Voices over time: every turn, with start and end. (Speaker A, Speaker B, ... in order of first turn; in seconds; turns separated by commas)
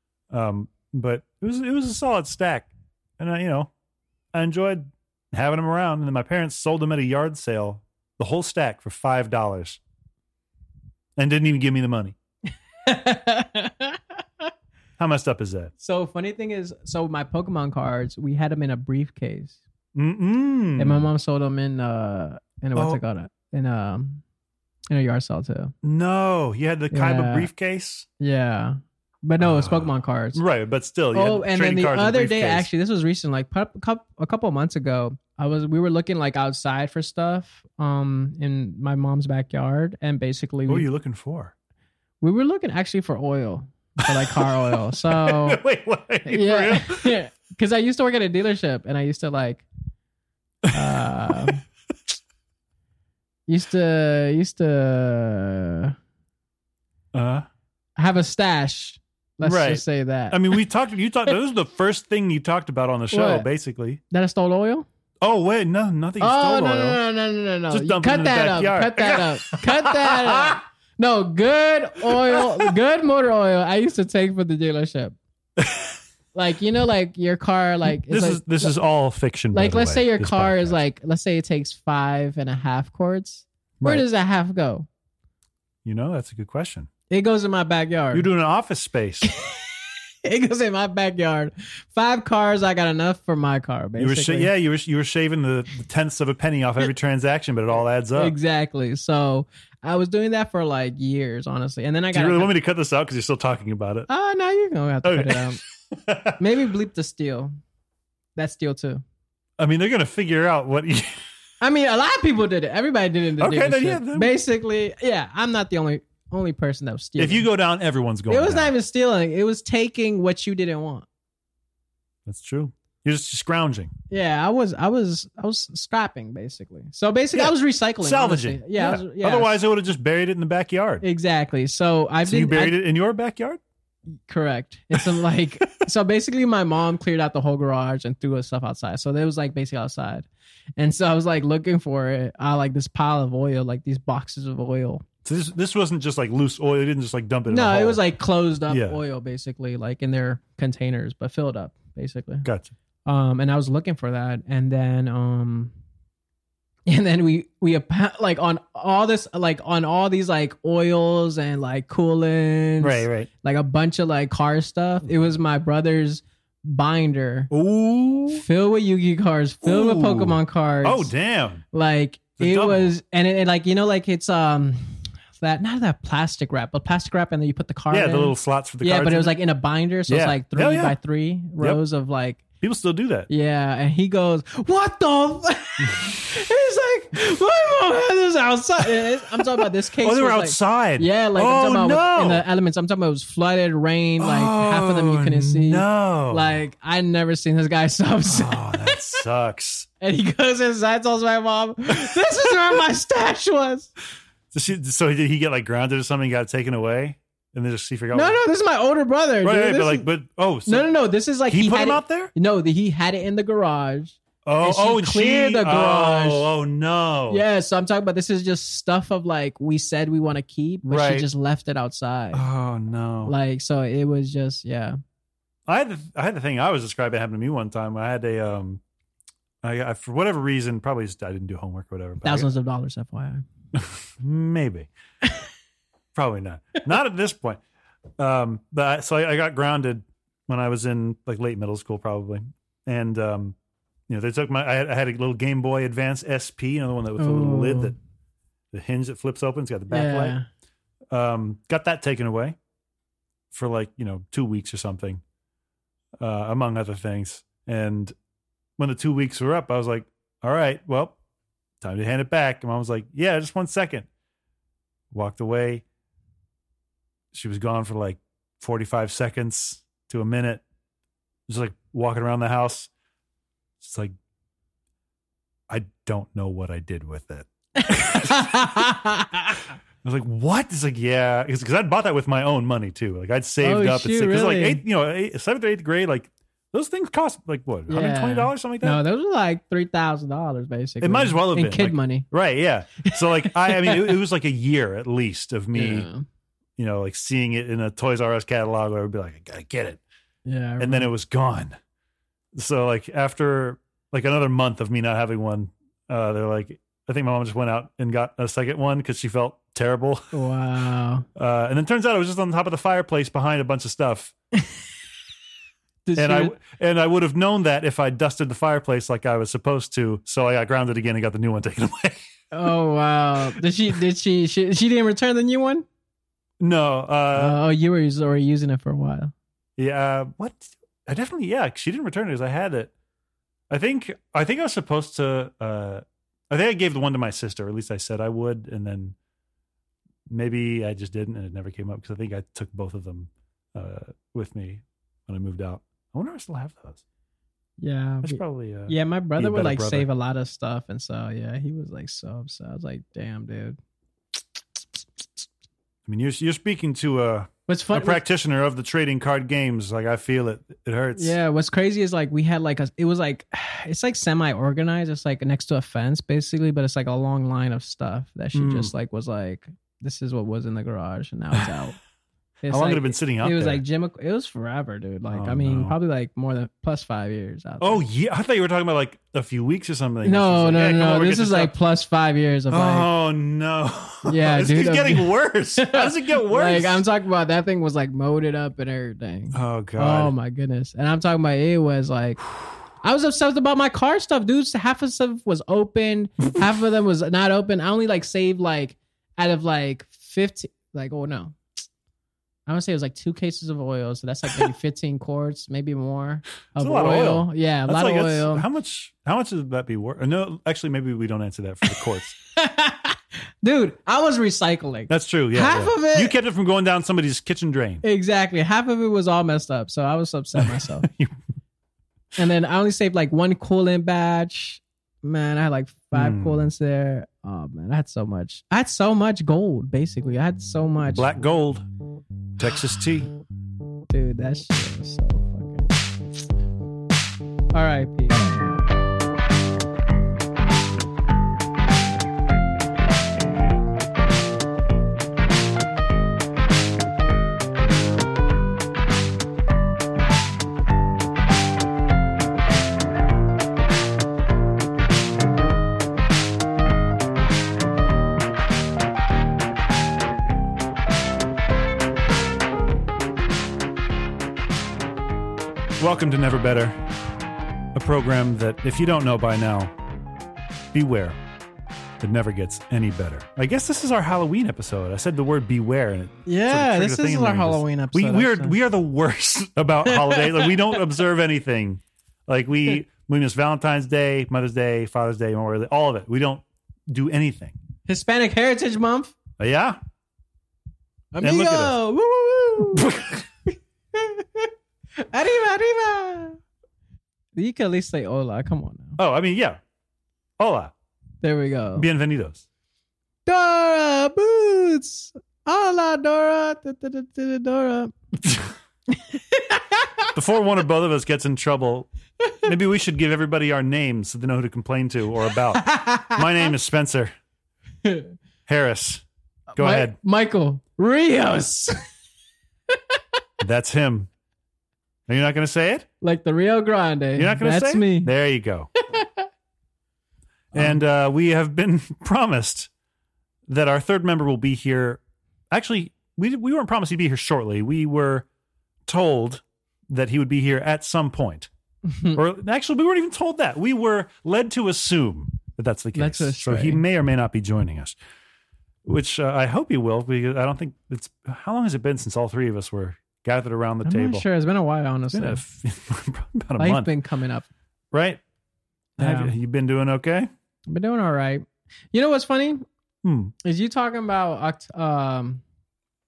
Speaker A: 0.3-3.7, Speaker A: 4.3-9.8, Speaker A: 11.2-12.2, Speaker B: 12.8-14.5, Speaker A: 15.0-15.7, Speaker B: 15.8-19.6, Speaker A: 19.9-21.1, Speaker B: 20.8-24.2, Speaker B: 24.9-25.7, Speaker A: 25.8-28.1, Speaker B: 26.9-27.5, Speaker B: 28.2-30.4, Speaker A: 29.4-32.7, Speaker B: 31.1-40.9, Speaker A: 40.7-41.5, Speaker B: 42.2-45.6, Speaker A: 44.1-47.1, Speaker B: 46.3-49.6, Speaker A: 50.7-51.5, Speaker B: 50.7-51.6, Speaker B: 53.5-56.0, Speaker A: 57.1-57.5, Speaker B: 58.0-60.6, Speaker A: 59.4-64.0, Speaker B: 63.1-63.5, Speaker B: 64.1-64.9, Speaker A: 65.2-67.0, Speaker B: 66.2-75.2, Speaker A: 67.7-70.6, Speaker A: 72.1-72.7, Speaker A: 75.6-75.9, Speaker B: 76.3-78.7, Speaker A: 78.0-80.8, Speaker B: 79.5-84.9, Speaker A: 83.8-84.1, Speaker A: 85.8-86.9, Speaker B: 87.1-88.3, Speaker A: 88.1-89.3, Speaker B: 89.2-94.5, Speaker A: 94.0-98.3, Speaker B: 98.2-102.5, Speaker A: 102.1-104.1, Speaker B: 104.1-105.6, Speaker A: 105.0-106.4, Speaker B: 106.4-107.5, Speaker B: 108.4-109.0, Speaker A: 109.6-111.1, Speaker B: 111.6-117.5, Speaker A: 113.4-114.3, Speaker A: 117.2-118.7, Speaker B: 118.3-121.0, Speaker A: 122.3-123.9, Speaker B: 124.1-129.6, Speaker A: 127.3-131.1, Speaker B: 131.0-132.8, Speaker A: 132.2-133.6, Speaker B: 134.3-145.1, Speaker A: 145.2-148.0, Speaker B: 147.5-152.4, Speaker A: 148.7-149.0, Speaker A: 152.4-152.7, Speaker B: 153.1-155.7, Speaker B: 156.9-167.5, Speaker A: 162.8-163.3, Speaker A: 167.5-168.4, Speaker B: 168.3-171.1, Speaker A: 169.6-171.6, Speaker B: 171.7-174.8, Speaker A: 172.4-172.9, Speaker B: 175.4-182.4, Speaker A: 177.9-179.4, Speaker A: 180.1-181.0, Speaker A: 182.6-183.3, Speaker B: 183.3-199.2, Speaker A: 185.8-186.1, Speaker A: 189.5-192.4, Speaker A: 194.2-196.6, Speaker A: 198.3-199.9, Speaker B: 200.0-203.9, Speaker A: 201.9-202.5, Speaker A: 204.5-208.4, Speaker B: 208.1-210.1, Speaker A: 209.4-210.9, Speaker B: 210.7-216.5, Speaker A: 211.5-212.3, Speaker A: 214.4-217.4, Speaker B: 217.3-222.4, Speaker A: 220.8-221.3, Speaker A: 222.3-223.3, Speaker B: 223.2-225.0, Speaker A: 225.7-228.8, Speaker A: 229.6-232.5, Speaker B: 232.2-233.4, Speaker A: 234.2-234.9, Speaker A: 236.2-237.6, Speaker A: 238.2-243.6, Speaker A: 244.1-247.9, Speaker B: 247.2-247.9, Speaker A: 248.7-250.4, Speaker B: 249.9-250.4, Speaker A: 251.1-252.6, Speaker A: 253.5-255.2, Speaker A: 256.2-258.1, Speaker A: 258.8-261.1, Speaker A: 261.8-264.1, Speaker A: 265.1-265.8, Speaker A: 267.3-270.6, Speaker A: 271.5-272.9, Speaker A: 273.8-274.1, Speaker A: 275.7-278.9, Speaker B: 277.8-279.7, Speaker A: 280.0-289.0, Speaker B: 283.6-284.8, Speaker B: 287.9-292.3, Speaker A: 291.0-296.1, Speaker B: 293.0-294.2, Speaker B: 295.7-296.2, Speaker A: 296.8-300.0, Speaker B: 300.4-301.1, Speaker A: 300.8-301.8, Speaker A: 302.5-310.2, Speaker B: 310.3-311.2, Speaker A: 311.4-314.3, Speaker B: 316.1-316.6, Speaker A: 316.1-322.2, Speaker B: 322.5-325.8, Speaker A: 326.6-327.6, Speaker B: 327.3-329.3, Speaker A: 329.8-332.9, Speaker A: 333.7-339.1, Speaker A: 340.3-347.0, Speaker B: 347.8-353.8, Speaker A: 348.2-350.1, Speaker A: 356.1-361.3, Speaker B: 357.7-358.2, Speaker B: 361.2-371.9, Speaker A: 368.5-368.9, Speaker B: 372.7-378.0, Speaker A: 372.7-373.8, Speaker A: 375.3-375.9, Speaker A: 377.8-381.7, Speaker B: 380.2-383.1, Speaker A: 382.7-387.0, Speaker B: 384.2-392.4, Speaker A: 389.5-390.3, Speaker B: 393.0-401.6, Speaker B: 402.7-408.7, Speaker A: 406.8-412.3, Speaker B: 412.6-416.3, Speaker A: 415.1-418.0, Speaker B: 418.0-421.1, Speaker A: 420.6-421.3, Speaker B: 422.4-431.4, Speaker A: 426.1-426.6, Speaker A: 431.1-431.8, Speaker A: 432.6-433.3, Speaker B: 434.1-435.9, Speaker B: 437.7-438.8, Speaker A: 466.0-467.0, Speaker A: 467.9-469.9, Speaker A: 470.9-471.4, Speaker A: 472.2-487.8, Speaker B: 476.4-478.7, Speaker B: 480.0-481.0, Speaker B: 488.1-489.4, Speaker A: 489.6-490.0, Speaker B: 491.3-493.1, Speaker A: 491.4-491.9, Speaker A: 493.0-493.4, Speaker B: 494.1-494.7, Speaker B: 495.2-496.6, Speaker B: 497.5-499.2, Speaker A: 499.2-499.8, Speaker A: 500.6-500.9, Speaker B: 501.4-502.1, Speaker A: 502.0-502.6, Speaker B: 503.4-508.1, Speaker B: 509.1-510.2, Speaker A: 510.3-512.1, Speaker A: 512.6-517.3, Speaker B: 515.8-516.6, Speaker B: 518.0-518.3, Speaker A: 518.7-519.2, Speaker A: 519.8-520.2, Speaker B: 519.8-522.0, Speaker A: 523.6-524.3, Speaker A: 525.3-526.0, Speaker B: 526.2-528.3, Speaker A: 527.4-528.9, Speaker B: 529.0-529.4, Speaker A: 530.7-532.9, Speaker A: 533.7-538.5, Speaker A: 539.1-541.7, Speaker B: 542.1-542.4, Speaker A: 542.3-548.1, Speaker B: 546.1-547.0, Speaker A: 549.0-554.5, Speaker B: 554.0-555.6, Speaker A: 555.3-557.1, Speaker B: 556.8-557.7, Speaker A: 558.1-558.4, Speaker A: 559.2-560.5, Speaker B: 559.2-559.5, Speaker B: 560.9-562.9, Speaker A: 563.2-563.5, Speaker B: 563.6-565.6